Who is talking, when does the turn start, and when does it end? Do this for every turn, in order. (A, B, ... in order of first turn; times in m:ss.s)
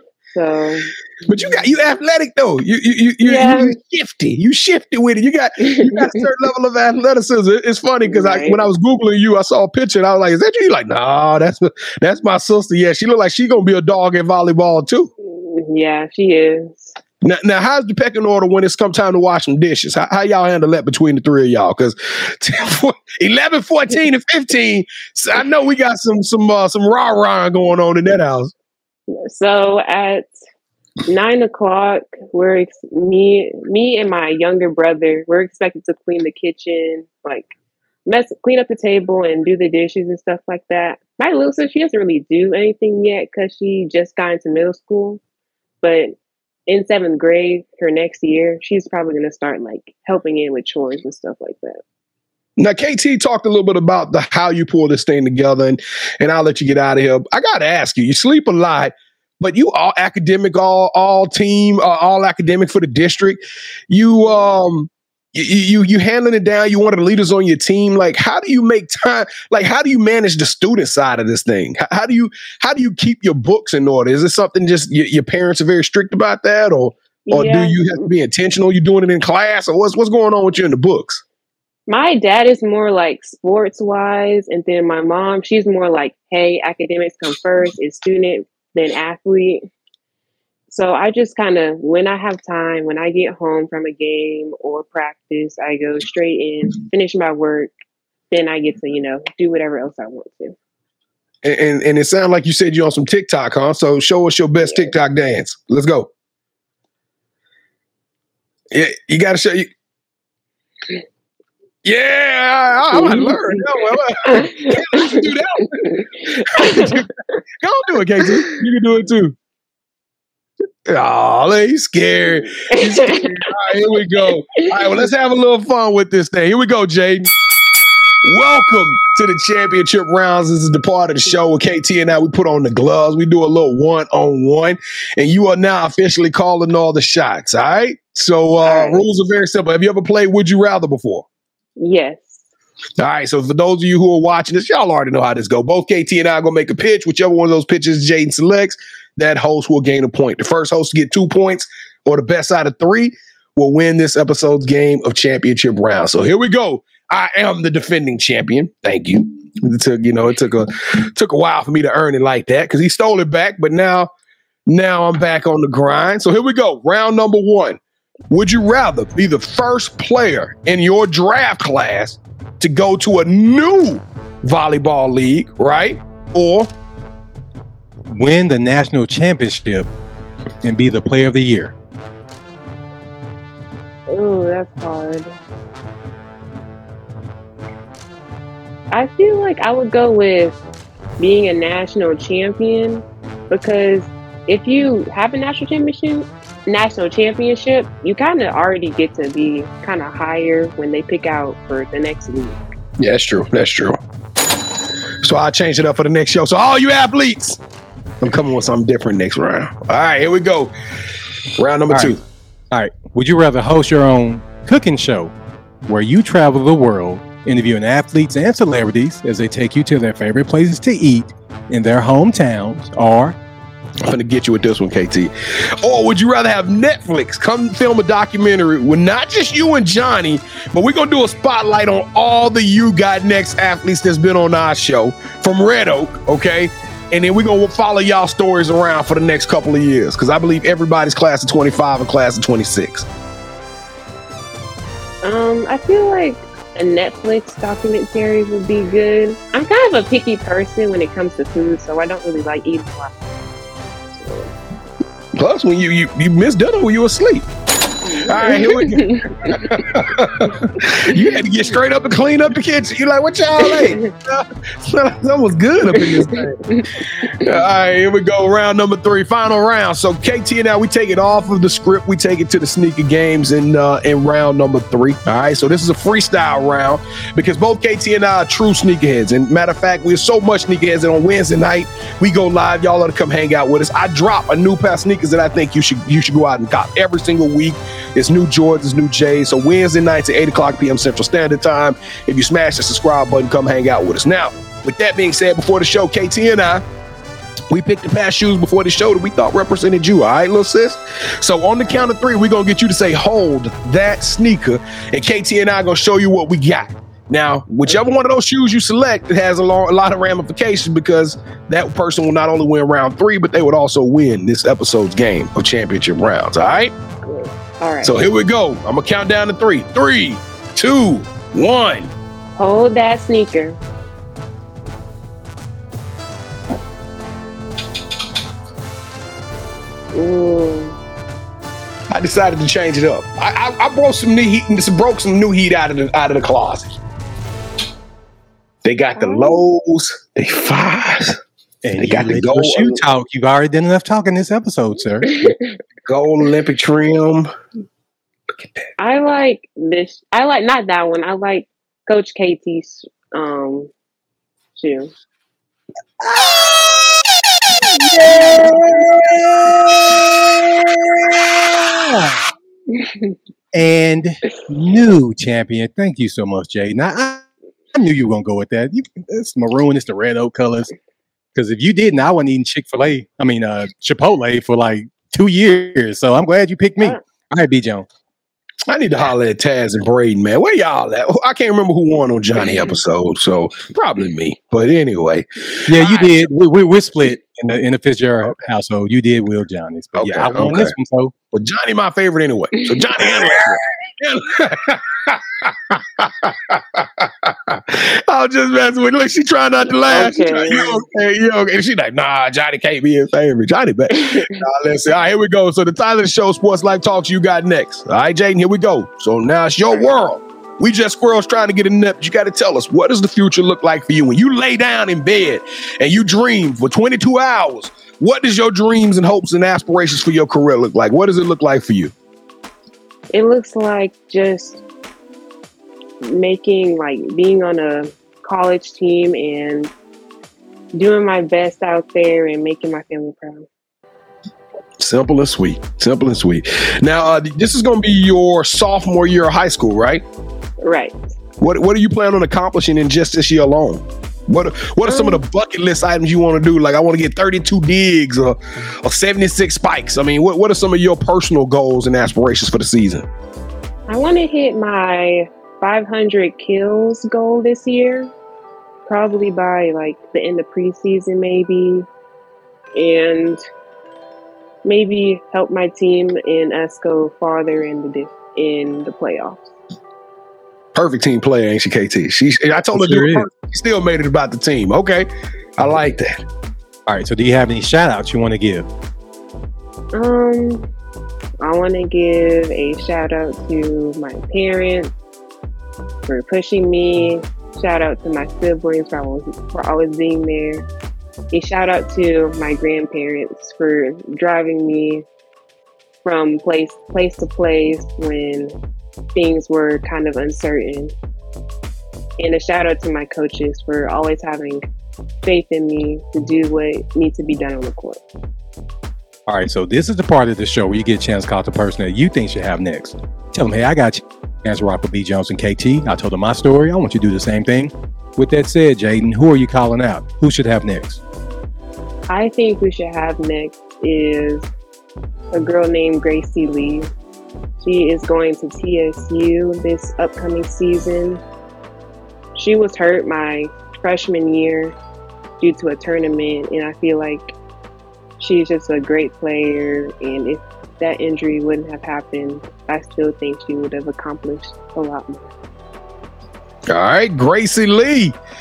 0:00.3-0:01.5 A
0:01.3-0:15.1 B
0:03.2-0:03.8 A
0:05.6-0:06.2 A
0:08.0-0:08.7 A
0:15.2-0:17.0 A
0:17.2-0:28.5 B
0:29.1-0:30.3 A
0:31.0-0:37.5 A
0:38.0-0:45.2 A
0:45.8-0:46.2 A
0:46.7-0:51.8 A
0:52.6-1:21.2 B
1:17.3-1:18.1 A
1:21.9-1:29.6 A
1:30.7-1:37.7 A
1:38.3-1:40.6 A
1:41.4-1:46.1 B
1:48.7-1:49.7 B
1:51.8-1:59.3 B
1:52.9-1:53.7 A
1:54.2-1:55.3 A
1:55.8-1:57.0 A
1:58.2-1:58.5 A
2:00.8-2:07.3 B
2:02.7-2:03.4 A
2:04.6-2:05.0 A
2:08.2-2:21.2 B
2:18.6-2:19.0 A
2:21.8-2:22.4 A
2:23.0-2:44.1 B
2:44.7-2:56.7 B
2:58.1-2:59.9 C
3:00.6-3:01.7 C
3:04.1-3:05.3 A
3:08.9-3:10.6 A
3:11.2-3:22.6 A
3:23.0-3:24.0 B
3:25.2-3:27.6 B
3:28.2-3:30.7 B
3:31.6-3:32.2 B
3:31.9-3:32.2 C
3:32.7-3:35.3 C
3:35.9-3:43.4 C
3:44.0-4:03.1 B
4:05.2-4:13.3 A
4:14.1-4:14.5 A
4:15.4-4:17.5 B
4:18.0-4:21.4 A
4:18.2-4:26.6 B
4:23.6-4:24.1 A
4:25.9-4:27.5 A
4:27.2-4:56.8 B
4:57.7-5:16.9 B
5:07.9-5:08.1 A
5:17.2-5:18.1 A
5:18.0-5:22.1 B
5:22.6-5:23.8 A
5:30.1-5:31.0 A
5:32.1-5:37.0 B
5:38.8-5:41.4 B
5:39.2-5:39.6 A
5:41.8-5:45.5 C
5:42.0-5:43.0 B
5:46.0-5:47.5 B
5:49.0-5:53.9 A
5:54.8-5:55.1 A
5:56.4-5:56.9 C
5:57.8-5:59.1 C
5:58.4-5:59.1 B
5:59.7-6:00.1 C
6:01.7-6:02.5 C
6:02.9-6:03.3 A
6:03.7-6:10.9 C
6:11.5-6:18.0 C
6:18.9-6:26.4 B
6:25.8-6:31.3 C
6:30.2-6:30.9 B
6:31.5-7:02.1 B
6:32.8-6:33.6 A
6:40.1-6:41.0 A
6:44.1-6:44.6 A
7:03.3-7:04.8 A
7:06.2-7:09.9 A
7:10.9-7:13.6 A
7:15.0-7:20.2 B
7:20.8-7:21.2 A
7:21.6-7:33.3 B
7:25.0-7:25.4 A
7:34.1-7:38.3 A
7:39.0-7:42.1 A
7:43.0-7:43.6 A
7:44.8-7:49.7 A
7:50.9-7:56.4 B
7:52.9-7:53.4 C
7:57.1-7:58.9 C
8:00.1-8:00.9 A
8:01.6-8:05.1 A
8:06.3-8:10.8 A
8:11.5-8:15.2 A
8:16.2-8:18.8 A
8:19.3-8:21.1 A
8:22.4-8:24.9 A
8:25.4-8:28.2 A
8:29.5-8:41.2 C
8:42.3-8:44.7 A
8:45.5-8:47.1 A
8:47.8-8:51.4 A
8:52.6-8:54.9 A
8:55.6-8:57.5 A
8:58.4-9:05.5 A
9:06.9-9:08.4 B